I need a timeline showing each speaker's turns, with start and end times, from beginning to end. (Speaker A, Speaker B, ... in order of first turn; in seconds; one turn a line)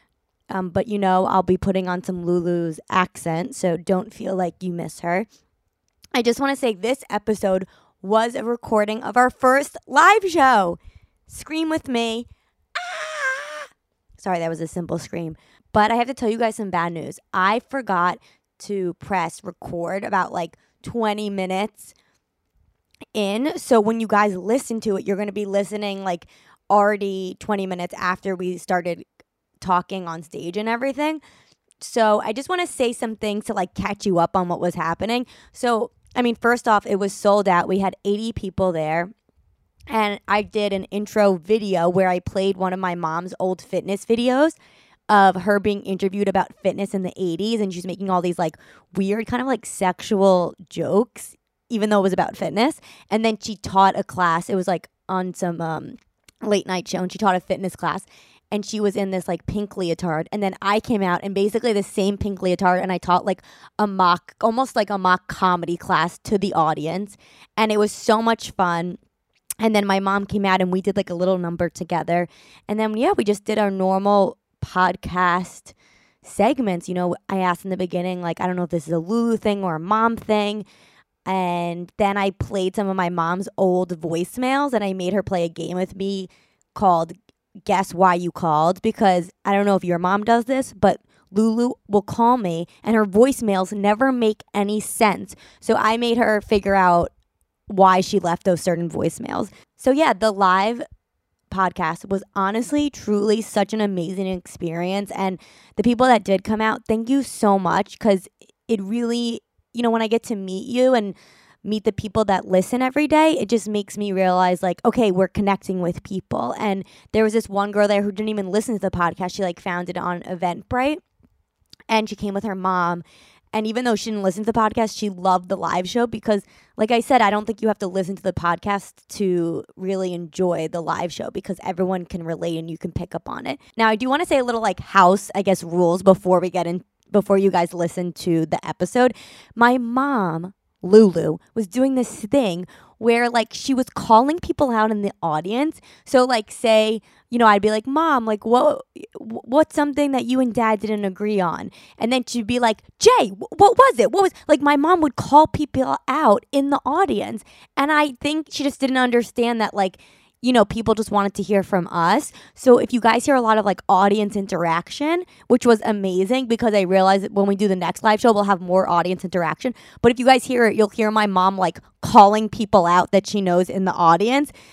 Speaker A: 0.5-5.3
Speaker A: 6.1-21.9
Speaker A: 23.1-29.0
Speaker A: 29.6-31.2
Speaker A: 31.8-39.1
Speaker A: 39.9-44.5
Speaker A: 45.1-69.0
Speaker A: 69.6-80.6
Speaker A: 81.2-87.1
Speaker A: 87.7-97.1
Speaker A: 97.7-100.8
Speaker A: 101.5-121.0
Speaker A: 121.9-174.5